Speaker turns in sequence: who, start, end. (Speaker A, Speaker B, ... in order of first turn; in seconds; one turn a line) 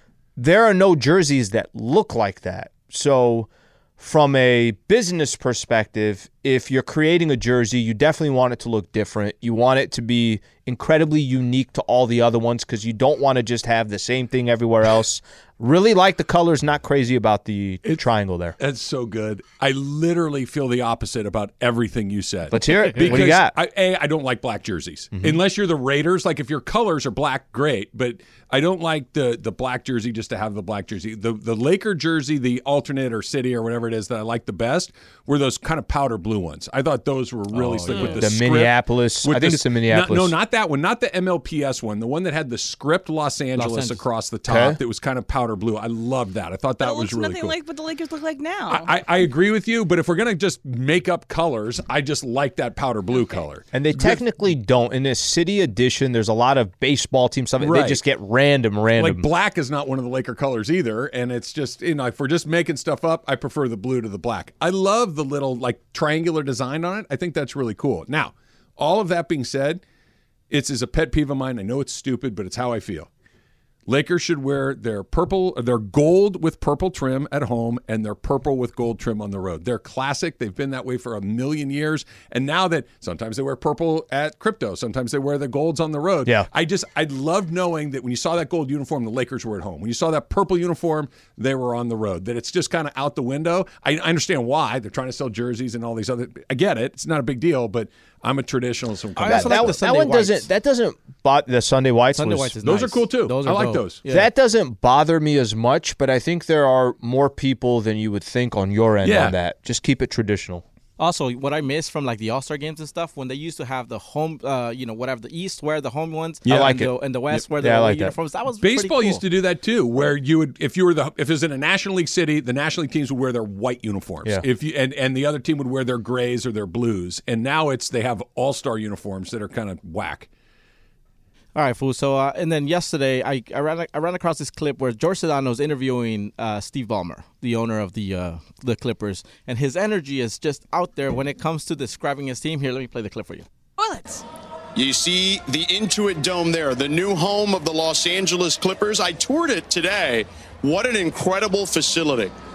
Speaker A: 0.4-18.6
Speaker B: 18.6-47.6
Speaker A: 22.5-23.6
Speaker A: 25.1-25.4
Speaker C: 37.5-38.3
Speaker A: 38.0-40.4
Speaker C: 43.5-44.0
Speaker A: 44.5-44.8
Speaker D: 46.8-48.9
Speaker B: 48.7-54.2
Speaker D: 53.1-53.5
Speaker A: 53.7-59.3
Speaker B: 57.6-58.0
Speaker B: 59.0-69.8
Speaker B: 70.5-73.1
Speaker B: 73.9-99.8
Speaker C: 99.2-100.5
Speaker A: 99.2-102.6
Speaker C: 102.1-104.3
Speaker B: 102.6-104.0
Speaker A: 104.1-110.6
Speaker B: 109.0-109.4
Speaker C: 111.0-119.2
Speaker B: 116.5-116.8
Speaker A: 116.5-118.2
Speaker B: 118.6-130.3
Speaker C: 131.6-143.5
Speaker D: 143.8-144.2
Speaker E: 144.8-152.3